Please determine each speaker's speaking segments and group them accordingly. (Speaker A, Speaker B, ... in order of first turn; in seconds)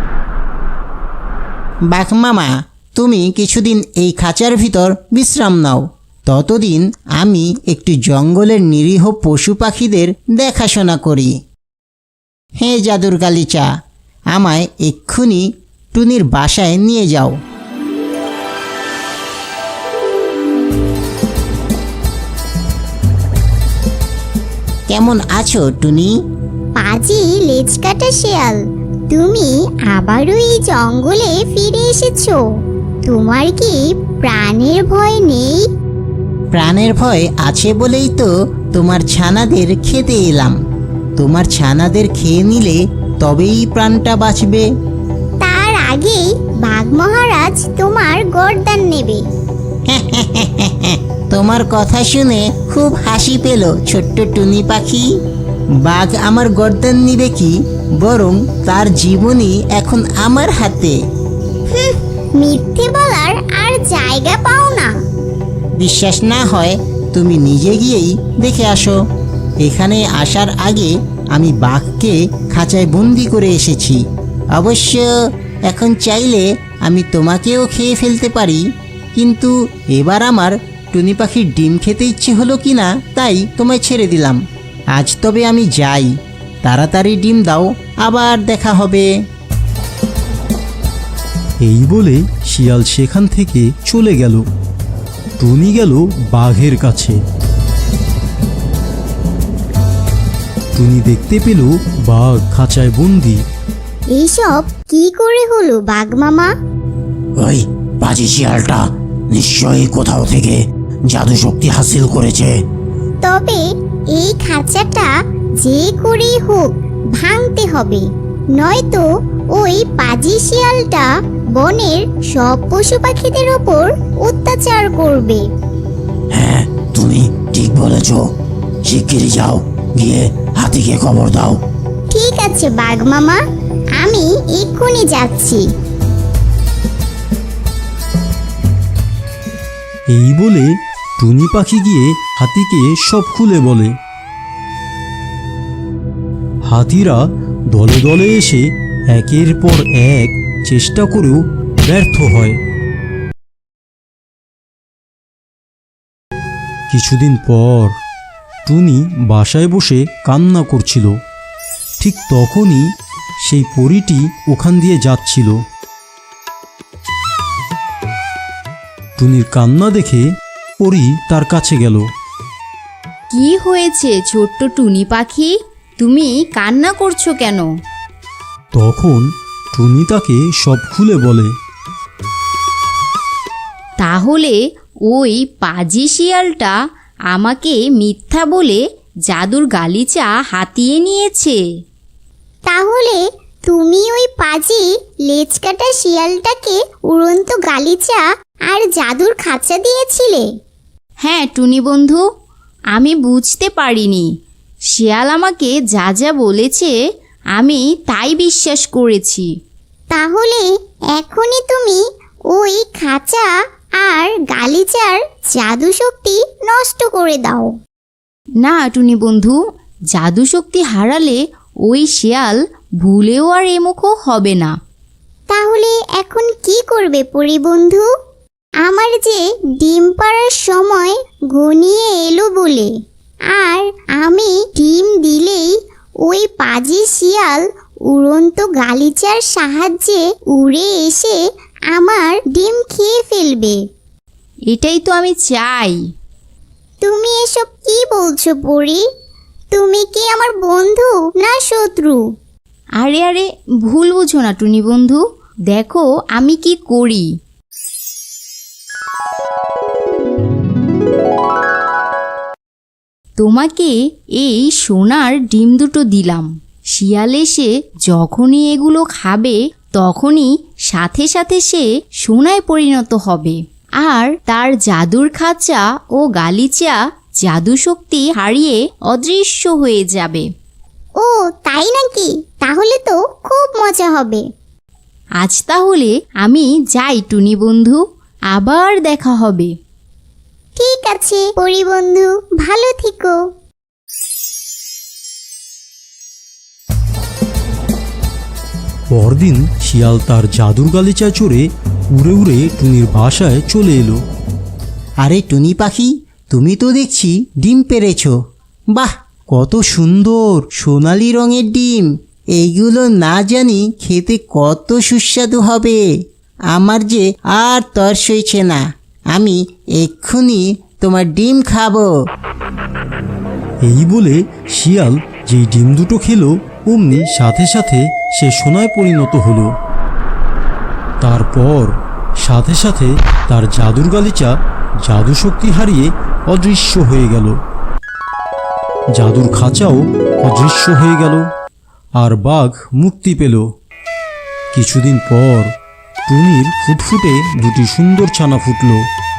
Speaker A: 1.9-11.3, 12.6-13.7, 14.3-17.4, 24.9-26.1, 36.5-40.6, 41.2-44.6, 49.9-55.1, 55.8-61.0, 65.8-69.0, 69.6-74.0, 74.5-75.1, 75.7-78.6, 79.2-84.4, 84.9-86.1, 86.6-89.1, 305.2-308.4, 310.8-316.0, 316.7-322.1
Speaker B: 26.8-28.6, 29.1-32.4, 33.1-35.6, 45.4-49.2, 61.7-65.0, 104.1-106.5, 113.2-125.4, 132.1-133.4, 134.0-135.6, 192.7-200.5, 210.1-213.5, 214.0-217.7, 225.5-228.1, 228.8-232.9, 233.5-235.7, 236.2-241.4, 241.9-243.8, 247.0-249.0, 249.7-252.2, 281.2-284.4, 290.8-293.4
Speaker C: 91.6-94.4, 95.4-97.2, 100.8-103.4, 140.1-143.9, 146.7-152.6, 156.9-157.9, 158.7-161.2, 162.0-162.9, 163.4-165.6, 169.2-170.3, 170.8-172.1, 178.7-181.5, 299.1-304.2, 309.6-310.6, 323.8-329.7, 331.2-337.6, 339.1-341.4, 342.2-343.6, 344.7-345.7, 346.3-349.0
Speaker D: 107.4-112.5, 126.3-128.2, 128.8-131.6
Speaker E: 173.3-177.7, 184.0-184.6, 185.1-186.7, 187.3-191.6, 201.2-202.2, 202.9-204.3, 204.9-206.9, 207.6-209.5, 218.6-219.6, 220.1-224.8, 244.7-246.0, 253.0-257.3, 263.4-280.5, 285.4-288.0, 288.5-289.7